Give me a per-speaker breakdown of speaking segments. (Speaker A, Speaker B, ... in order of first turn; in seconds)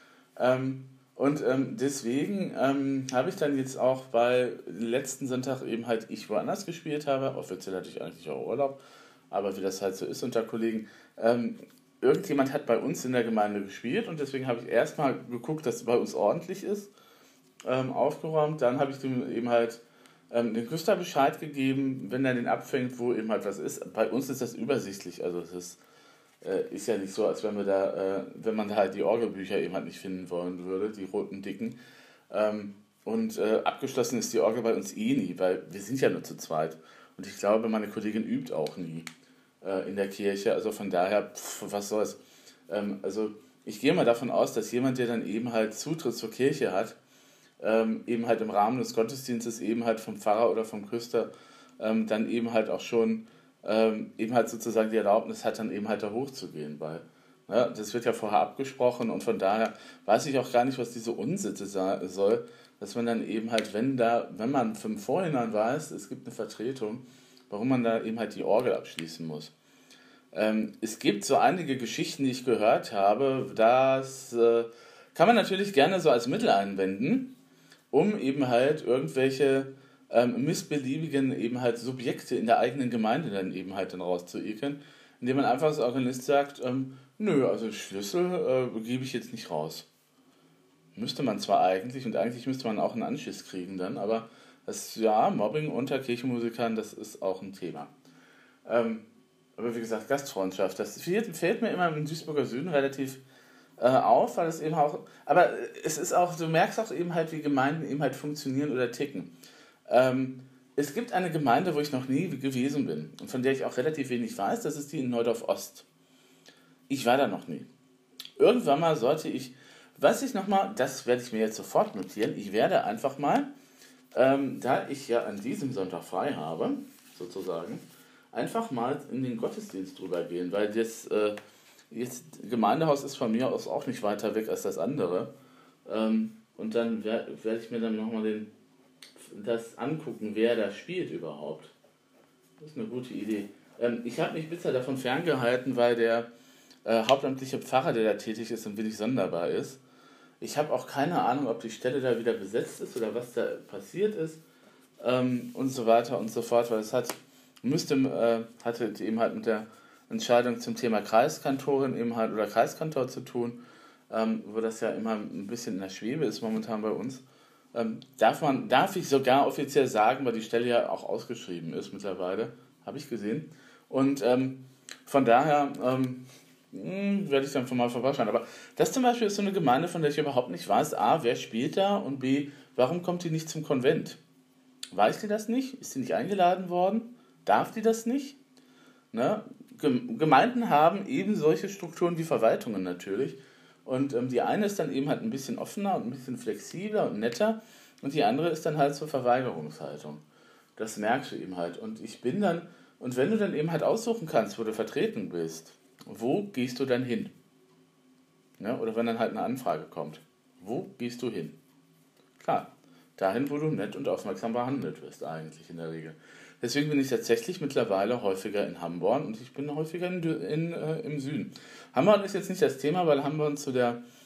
Speaker A: 0.4-16.9, 17.6-25.8, 26.4-31.8, 32.3-39.1, 39.6-47.0, 47.6-69.5, 70.3-77.3, 77.9-89.9, 90.9-97.9, 98.6-103.2, 103.8-109.3, 109.9-115.8, 116.9-117.7, 118.4-123.5, 124.1-131.4, 131.9-135.3, 135.8-138.5, 139.2-141.7, 142.6-146.3, 146.8-149.8, 150.4-154.4, 155.0-167.2, 167.7-184.2, 184.9-188.4, 189.1-200.2, 200.8-207.3, 208.6-211.6, 212.4-224.0